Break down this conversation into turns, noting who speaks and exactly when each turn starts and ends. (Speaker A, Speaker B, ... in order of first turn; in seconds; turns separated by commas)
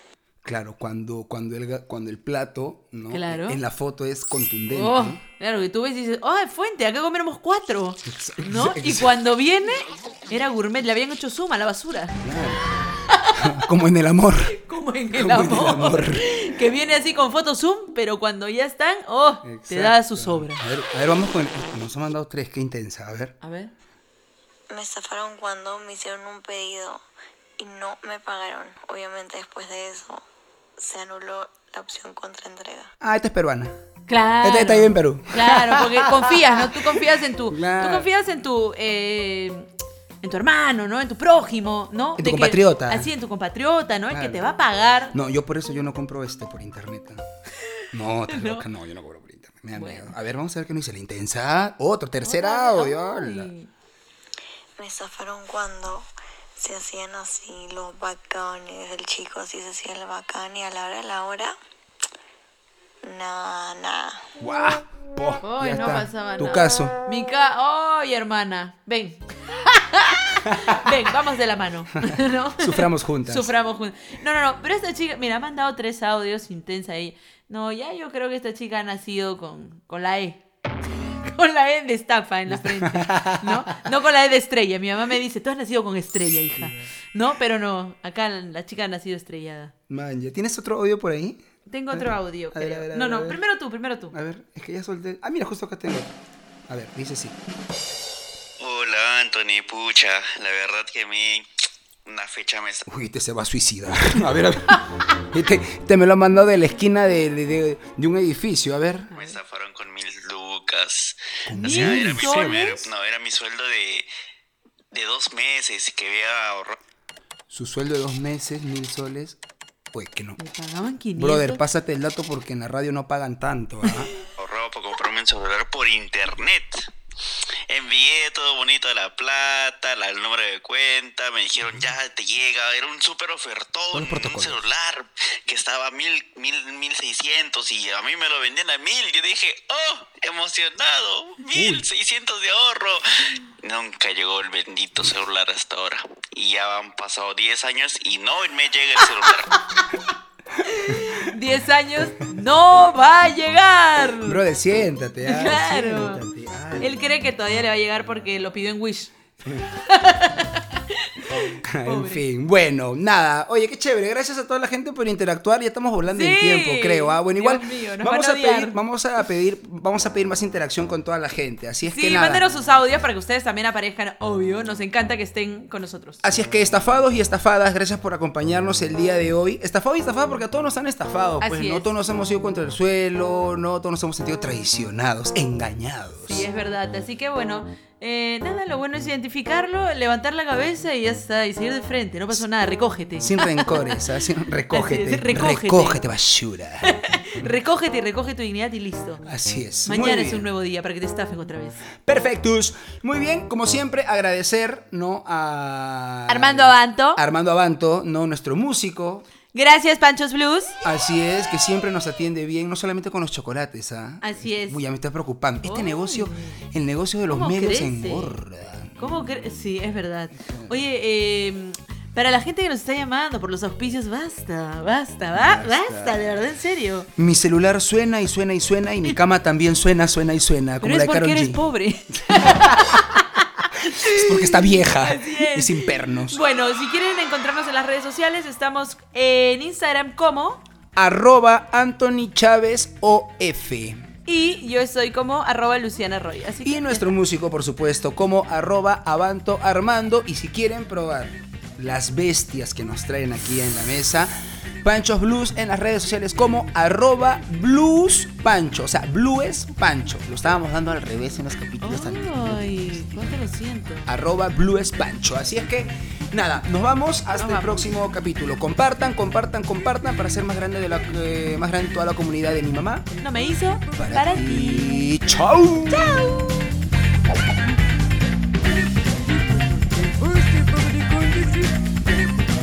Speaker A: 0.4-5.2, Speaker B: 3.1-3.6, Speaker B: 4.7-12.2, Speaker A: 8.1-9.2, Speaker A: 12.2-14.6, Speaker B: 13.1-13.6, Speaker B: 14.4-20.6, Speaker A: 15.1-16.5, Speaker A: 19.4-23.4, Speaker B: 23.4-23.7, Speaker C: 24.7-27.0, Speaker C: 27.6-30.2, Speaker C: 30.8-32.9, Speaker A: 33.0-33.7, Speaker B: 34.1-39.7, Speaker A: 34.4-38.1, Speaker B: 40.2-45.1, Speaker A: 42.2-43.1, Speaker A: 44.1-44.5, Speaker A: 45.1-47.2, Speaker A: 47.9-53.5, Speaker B: 48.3-48.6, Speaker B: 49.7-50.1, Speaker B: 52.2-53.7, Speaker C: 54.8-61.5, Speaker C: 63.0-64.2, Speaker A: 64.4-67.0, Speaker B: 65.4-80.4, Speaker A: 70.5-70.8, Speaker A: 72.0-73.5, Speaker B: 81.1-89.7, Speaker A: 82.5-83.7, Speaker A: 86.6-86.8, Speaker A: 89.9-91.4, Speaker B: 91.7-94.1, Speaker A: 91.9-93.4, Speaker A: 94.1-96.1, Speaker A: 96.7-97.4, Speaker D: 98.6-101.5, Speaker D: 102.0-102.8, Speaker A: 102.8-109.1, Speaker B: 109.1-109.4, Speaker D: 109.1-114.1, Speaker A: 111.5-112.5, Speaker B: 111.6-112.9, Speaker D: 114.9-116.8, Speaker A: 117.5-119.4, Speaker A: 119.9-120.4, Speaker B: 120.4-121.6, Speaker A: 121.2-124.1, Speaker D: 124.4-126.8, Speaker D: 127.7-143.0, Speaker A: 133.9-134.6, Speaker A: 141.5-141.8, Speaker D: 143.6-149.6, Speaker B: 150.6-154.4, Speaker A: 150.9-151.2, Speaker A: 154.2-157.0, Speaker B: 155.2-156.2, Speaker B: 156.8-159.1, Speaker B: 159.7-162.2, Speaker A: 161.4-172.4, Speaker B: 166.1-168.8, Speaker B: 171.8-176.2, Speaker A: 176.2-186.4, Speaker B: 181.4-181.9, Speaker B: 186.2-194.0, Speaker A: 193.2-196.9, Speaker B: 194.7-196.0, Speaker B: 196.8-199.2, Speaker A: 199.2-200.4, Speaker B: 199.8-201.8, Speaker A: 202.0-209.3, Speaker B: 206.3-207.2, Speaker B: 209.5-210.8, Speaker A: 210.8-219.4, Speaker B: 214.2-214.8, Speaker B: 215.6-216.6, Speaker B: 217.3-218.4, Speaker B: 219.0-227.1, Speaker A: 220.4-220.7, Speaker A: 225.3-226.2, Speaker A: 227.2-231.7, Speaker B: 230.8-240.6, Speaker A: 232.3-233.0, Speaker A: 233.9-236.4, Speaker A: 240.9-244.0, Speaker B: 244.2-247.1, Speaker A: 246.6-263.4, Speaker B: 261.8-264.1, Speaker A: 264.0-273.1, Speaker B: 267.3-267.9, Speaker B: 273.2-275.1, Speaker A: 273.9-276.3, Speaker B: 275.9-276.7, Speaker A: 280.3-281.7